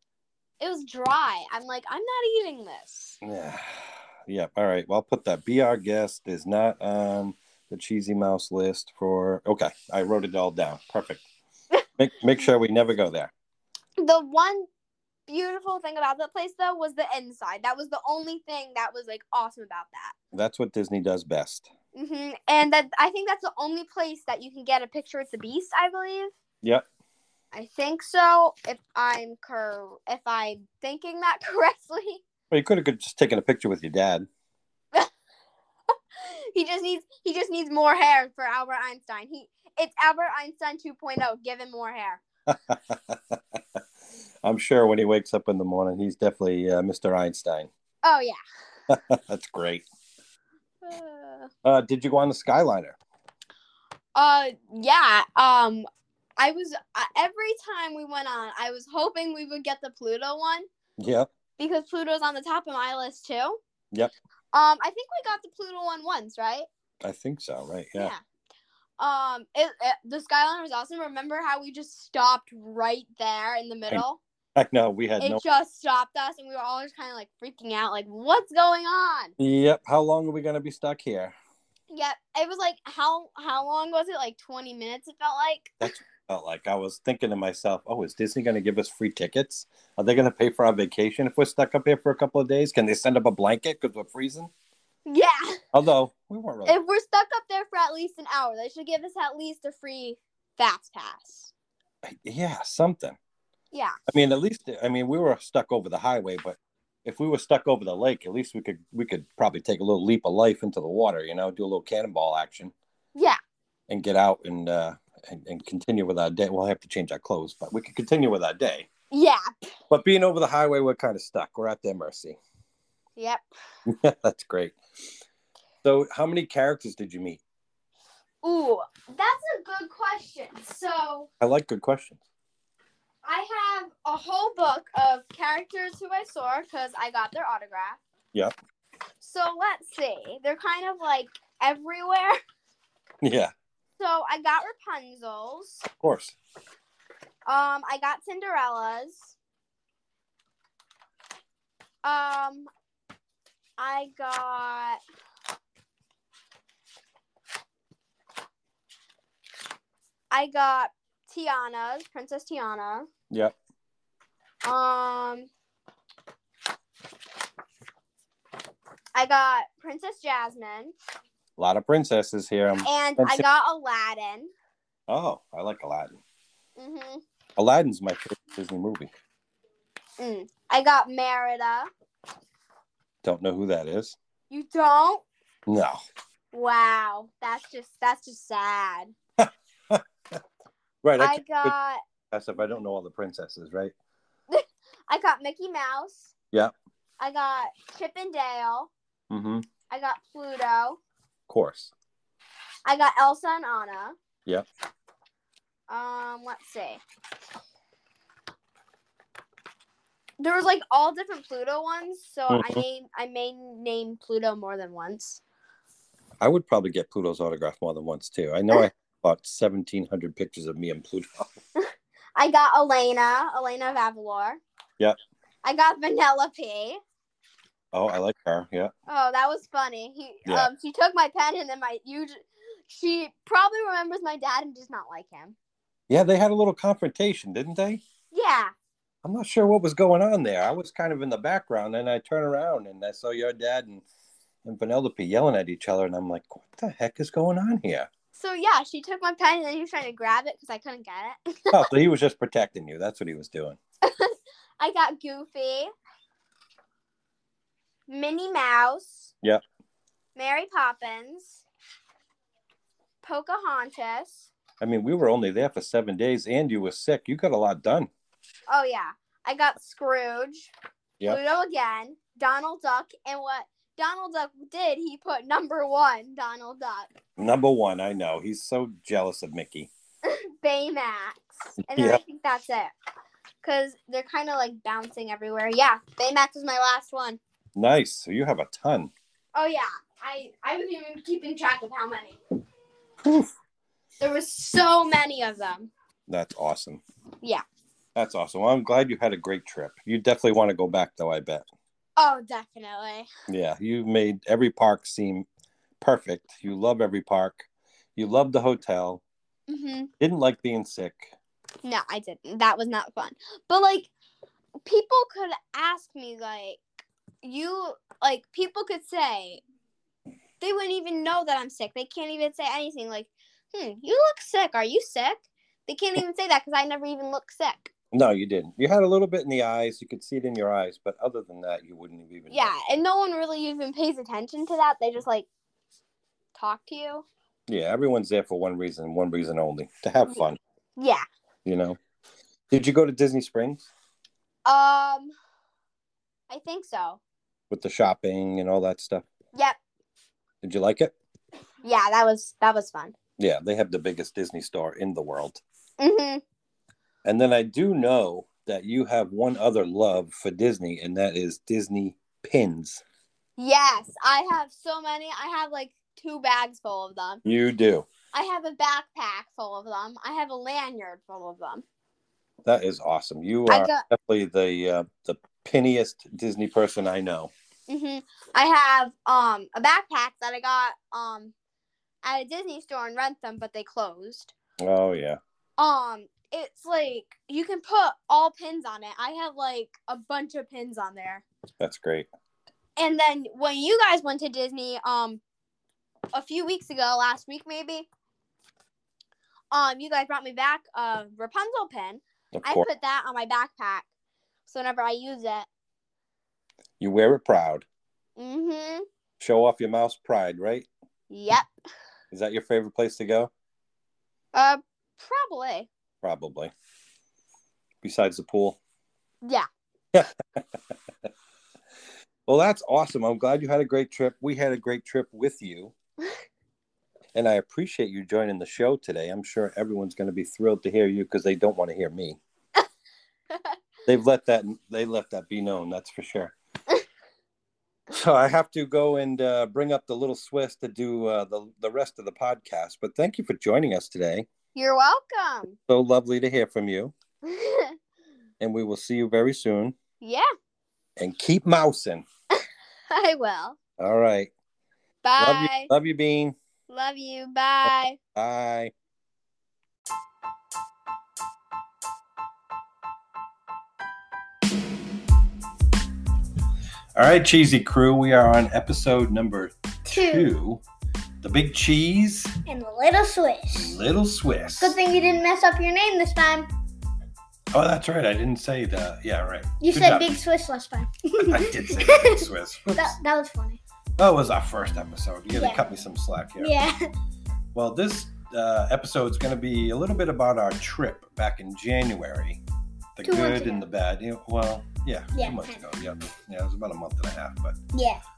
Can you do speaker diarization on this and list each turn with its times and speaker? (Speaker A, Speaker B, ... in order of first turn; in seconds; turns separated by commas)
Speaker A: 0.6-3.2, Speaker B: 3.2-11.2, Speaker B: 12.0-13.3, Speaker A: 14.0-14.7, Speaker A: 15.3-20.1, Speaker B: 20.3-21.7, Speaker A: 21.9-26.3, Speaker A: 27.5-32.2, Speaker B: 32.5-34.3, Speaker A: 36.2-42.2, Speaker B: 42.5-43.8, Speaker B: 44.4-47.7, Speaker A: 48.0-48.4, Speaker B: 48.9-49.8, Speaker A: 50.8-51.5, Speaker B: 51.6-53.0, Speaker A: 54.1-55.9, Speaker A: 56.4-60.6, Speaker B: 61.0-61.3, Speaker A: 61.6-63.6, Speaker A: 64.5-66.7, Speaker B: 67.0-68.1, Speaker A: 69.0-74.2, Speaker B: 74.5-75.4, Speaker A: 75.2-79.3, Speaker B: 79.4-81.3, Speaker A: 81.9-85.9, Speaker B: 85.8-94.5, Speaker A: 95.1-95.6, Speaker B: 95.7-96.8, Speaker A: 96.7-101.5, Speaker B: 102.0-103.2, Speaker A: 103.7-104.0, Speaker B: 104.1-112.7, Speaker B: 113.9-118.9, Speaker A: 119.1-119.7, Speaker B: 119.9-122.4, Speaker A: 123.2-123.4, Speaker B: 123.8-124.8, Speaker B: 125.8-127.4, Speaker A: 128.4-131.3, Speaker B: 131.4-132.2, Speaker A: 133.2-138.0, Speaker A: 139.2-142.4, Speaker B: 143.2-143.5, Speaker A: 144.0-145.8, Speaker B: 146.0-146.3, Speaker A: 147.5-149.3, Speaker A: 152.0-152.7, Speaker A: 153.8-155.0, Speaker A: 160.3-163.1, Speaker A: 164.6-165.5, Speaker A: 169.1-170.9, Speaker B: 171.6-173.4, Speaker A: 172.8-174.5, Speaker B: 175.1-176.2, Speaker A: 176.8-177.2, Speaker B: 177.6-179.1, Speaker A: 180.2-181.9, Speaker B: 183.2-184.2, Speaker A: 184.5-185.2, Speaker B: 185.7-186.0, Speaker A: 186.5-189.1, Speaker B: 189.4-190.0, Speaker B: 191.0-191.7, Speaker A: 191.2-192.0, Speaker B: 192.3-193.9, Speaker A: 194.5-196.3, Speaker A: 197.2-198.9, Speaker B: 199.3-199.7, Speaker A: 199.9-201.0, Speaker B: 201.5-201.9, Speaker A: 202.8-204.2, Speaker A: 205.9-207.0, Speaker A: 210.4-215.4, Speaker B: 212.5-212.8, Speaker B: 216.4-221.6, Speaker A: 221.8-224.6, Speaker A: 225.6-227.0, Speaker B: 227.9-228.9, Speaker A: 229.1-235.5, Speaker B: 236.1-238.0, Speaker A: 238.3-238.7, Speaker B: 239.2-244.0, Speaker B: 244.6-248.1, Speaker A: 248.3-251.9, Speaker B: 251.7-253.8, Speaker A: 254.0-255.9, Speaker A: 258.1-259.3, Speaker A: 260.3-261.6, Speaker A: 263.2-264.5, Speaker B: 264.8-268.1, Speaker A: 268.7-270.7, Speaker A: 271.2-277.1, Speaker B: 277.4-279.9, Speaker A: 280.2-282.9, Speaker B: 281.9-282.2, Speaker A: 283.6-287.4, Speaker B: 287.7-289.1, Speaker A: 289.5-292.4, Speaker B: 293.2-293.5, Speaker A: 294.2-295.9, Speaker B: 296.3-297.0, Speaker B: 298.1-301.7, Speaker A: 302.2-303.3, Speaker B: 303.5-305.5, Speaker B: 306.0-309.2, Speaker A: 309.7-310.1, Speaker B: 310.2-311.3, Speaker A: 311.8-314.1, Speaker A: 314.8-316.8, Speaker A: 317.4-319.6, Speaker A: 320.6-327.9, Speaker B: 328.1-332.7, Speaker A: 332.5-335.5, Speaker A: 336.5-337.2, Speaker B: 337.7-340.6, Speaker A: 341.0-341.2, Speaker B: 341.6-342.0, Speaker B: 342.7-343.9, Speaker A: 344.6-345.3, Speaker A: 346.5-347.2, Speaker B: 347.7-349.3, Speaker B: 350.6-351.1, Speaker A: 351.8-353.1, Speaker B: 353.4-355.6, Speaker A: 356.0-356.4, Speaker B: 357.2-363.0, Speaker A: 363.6-367.4, Speaker B: 367.4-368.1, Speaker A: 368.3-371.8, Speaker B: 372.6-377.5, Speaker A: 373.7-374.0, Speaker A: 377.9-381.5, Speaker A: 382.2-384.5, Speaker B: 384.8-385.4, Speaker A: 385.8-391.4, Speaker B: 391.8-392.3, Speaker A: 393.0-395.4, Speaker A: 396.3-398.1, Speaker A: 399.7-404.1, Speaker B: 402.5-402.9, Speaker A: 404.7-405.7, Speaker B: 407.0-407.9, Speaker A: 408.4-409.0, Speaker B: 409.4-410.9, Speaker A: 411.3-411.7, Speaker B: 412.3-413.5, Speaker A: 414.5-415.9, Speaker B: 416.2-416.7, Speaker B: 418.0-418.8, Speaker B: 420.1-420.6, Speaker B: 422.5-425.9, Speaker B: 427.3-432.4, Speaker B: 434.1-436.5, Speaker B: 438.1-444.5, Speaker A: 444.7-445.8, Speaker B: 445.9-447.1, Speaker A: 447.4-447.9, Speaker B: 448.6-449.9, Speaker A: 450.2-450.5, Speaker B: 451.2-452.2, Speaker A: 453.1-453.8, Speaker B: 454.0-454.5, Speaker A: 455.2-455.9, Speaker B: 455.4-456.6, Speaker A: 456.9-458.2, Speaker B: 457.9-458.9, Speaker B: 467.1-470.8, Speaker C: 470.1-470.5, Speaker B: 471.4-472.5, Speaker C: 472.6-474.0, Speaker B: 473.7-475.0, Speaker C: 474.8-476.7, Speaker B: 477.7-480.3, Speaker C: 479.8-483.8, Speaker B: 481.4-483.2, Speaker B: 484.2-486.7, Speaker C: 485.5-485.8, Speaker C: 486.6-487.0, Speaker B: 487.7-492.6, Speaker B: 493.1-497.8, Speaker C: 493.2-493.8, Speaker C: 495.3-495.8, Speaker C: 497.9-498.2